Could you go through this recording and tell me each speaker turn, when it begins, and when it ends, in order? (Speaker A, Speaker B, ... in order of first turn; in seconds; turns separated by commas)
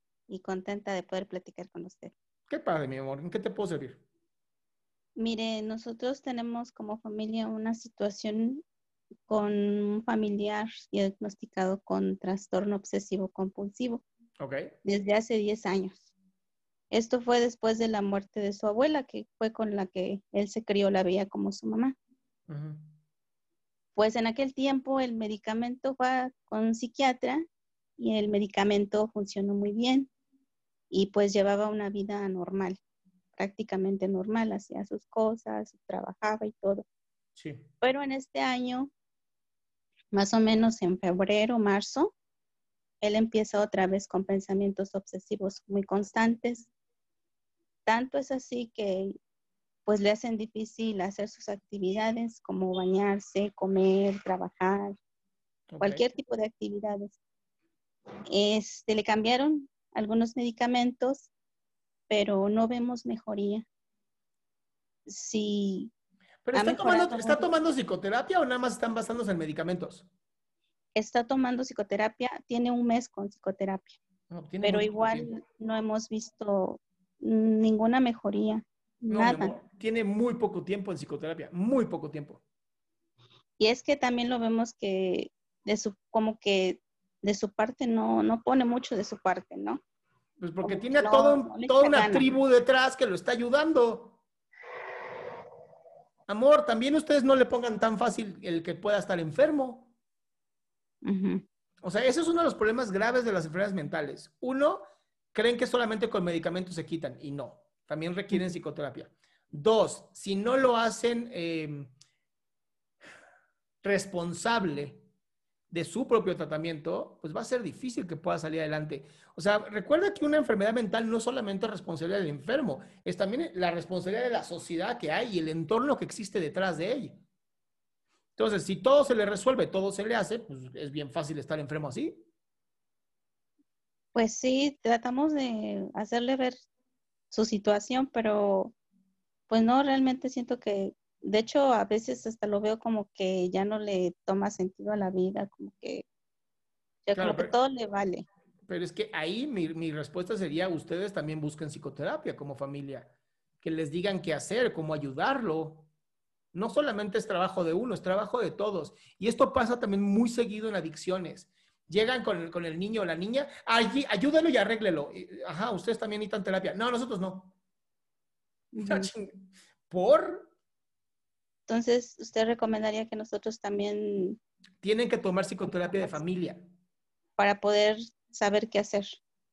Speaker A: 0.3-2.1, Speaker B: 2.5-4.0, Speaker A: 5.2-8.6, Speaker A: 9.3-14.0, Speaker B: 14.4-14.7, Speaker A: 14.8-16.0, Speaker A: 16.9-21.9, Speaker B: 22.5-22.9, Speaker A: 24.0-27.4, Speaker A: 28.0-30.1, Speaker A: 30.9-32.8, Speaker A: 33.4-36.9, Speaker B: 37.4-37.7, Speaker A: 37.8-38.9, Speaker A: 40.1-42.1, Speaker A: 43.0-46.7, Speaker A: 47.9-49.1, Speaker A: 49.9-55.0, Speaker B: 55.7-56.0, Speaker A: 55.8-57.2, Speaker A: 58.3-61.3, Speaker A: 62.1-63.7, Speaker A: 65.1-65.9, Speaker B: 66.4-70.1, Speaker A: 66.5-67.5, Speaker A: 71.0-74.0, Speaker B: 74.3-75.3, Speaker A: 74.6-79.5, Speaker B: 79.1-82.4, Speaker A: 83.6-89.8, Speaker B: 90.4-94.2, Speaker A: 90.6-92.3, Speaker B: 96.3-99.9, Speaker A: 101.0-101.4, Speaker B: 101.8-104.8, Speaker B: 105.3-111.9, Speaker B: 113.8-115.0, Speaker B: 115.7-127.2, Speaker B: 128.4-132.2, Speaker A: 134.2-136.6, Speaker A: 137.3-138.7, Speaker A: 139.5-146.1, Speaker A: 147.1-148.3, Speaker B: 147.2-147.5, Speaker B: 148.7-155.9, Speaker B: 156.5-167.5, Speaker A: 168.7-169.1, Speaker B: 168.8-169.3, Speaker B: 169.9-170.5, Speaker A: 171.7-174.4, Speaker B: 174.8-176.6, Speaker A: 175.7-176.2, Speaker A: 177.4-179.2